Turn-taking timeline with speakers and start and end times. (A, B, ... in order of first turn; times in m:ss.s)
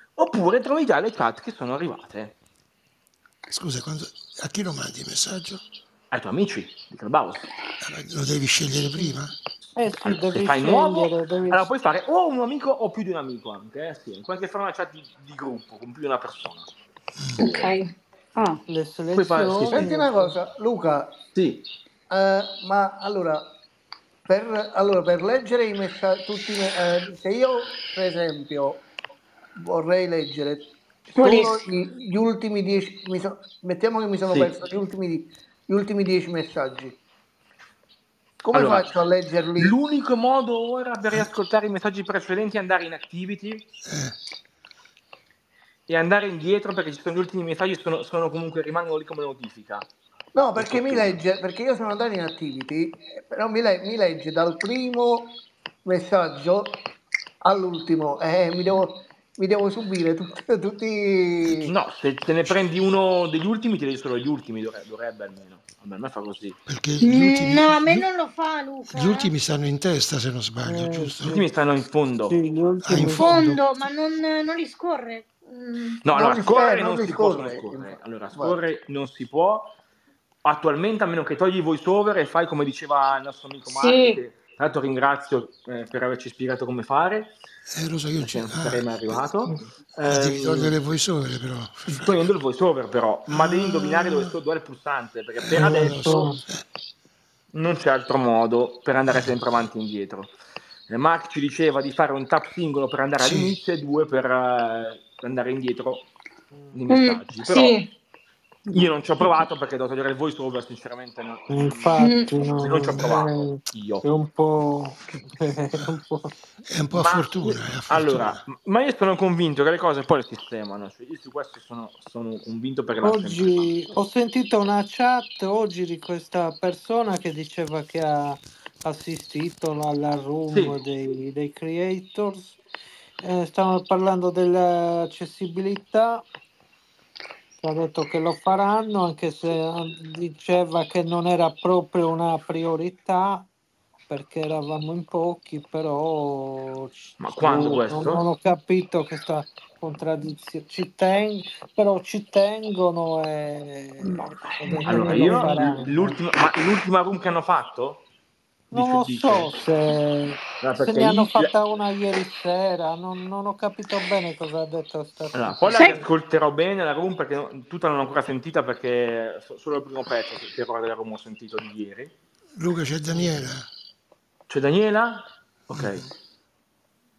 0:00.2-0:02.3 A
0:03.5-0:05.6 B
0:06.1-0:07.5 A
0:07.8-0:09.3 B
0:09.8-0:11.7 C
0:10.3-0:16.7 A
0:17.4-0:17.9 D
0:17.4-0:17.7 A
0:18.3-0:18.6 E
0:18.7-0:20.4 C
0:19.1-0:19.9 A
0:19.6-0:21.2 F
0:21.3-0:21.6 A
0:22.1-0:23.5 F
0:24.3-0:28.8 F
0:29.6-0:37.0 F
0:31.1-0:31.6 D
0:34.3-0:34.5 A
0:38.5-0:39.7 F
0:38.5-0:38.9 A
0:39.6-0:43.7 A
0:43.8-0:44.2 B
0:45.9-0:49.9 A
0:50.3-0:56.8 F
0:50.6-0:51.1 A
0:57.4-1:01.7 F
1:01.6-1:06.6 A
1:06.6-1:08.0 B
1:07.0-1:09.3 D
1:08.9-1:11.4 B
1:10.6-1:11.4 C
1:11.3-1:12.4 A
1:12.3-1:13.4 C
1:12.8-1:13.6 B
1:13.2-1:16.0 D
1:16.0-1:19.7 A
1:16.1-1:18.6 F
1:20.4-1:27.3 A
1:23.7-1:24.2 D
1:27.7-1:29.2 B
1:28.2-1:30.8 A
1:30.0-1:32.3 B
1:31.9-1:36.3 A
1:33.3-1:33.7 B
1:33.8-1:34.3 C
1:35.4-1:36.6 B
1:35.5-1:36.4 C
1:37.5-1:40.3 A
1:39.1-1:39.4 B
1:40.9-1:46.1 A
1:43.2-1:43.6 B
1:46.5-1:46.8 C
1:46.7-1:47.8 A
1:46.9-1:47.9 D
1:48.7-1:49.4 E
1:48.7-1:54.0 A
1:51.5-1:56.3 C
1:52.0-1:52.3 D
1:53.0-1:53.2 B
1:56.6-1:58.4 B
1:56.9-2:03.9 A
2:03.0-2:12.6 C
2:10.5-2:10.8 A
2:13.2-2:16.2 C
2:17.6-2:23.5 C
2:24.1-2:36.2 C
2:27.2-2:28.2 A
2:34.0-2:35.7 E
2:34.8-2:38.0 A
2:38.7-2:46.0 C
2:38.7-2:39.5 A
2:40.6-2:41.5 A
2:45.3-2:52.1 A
2:52.6-2:53.7 B
2:53.1-2:53.5 C
2:54.5-2:56.0 A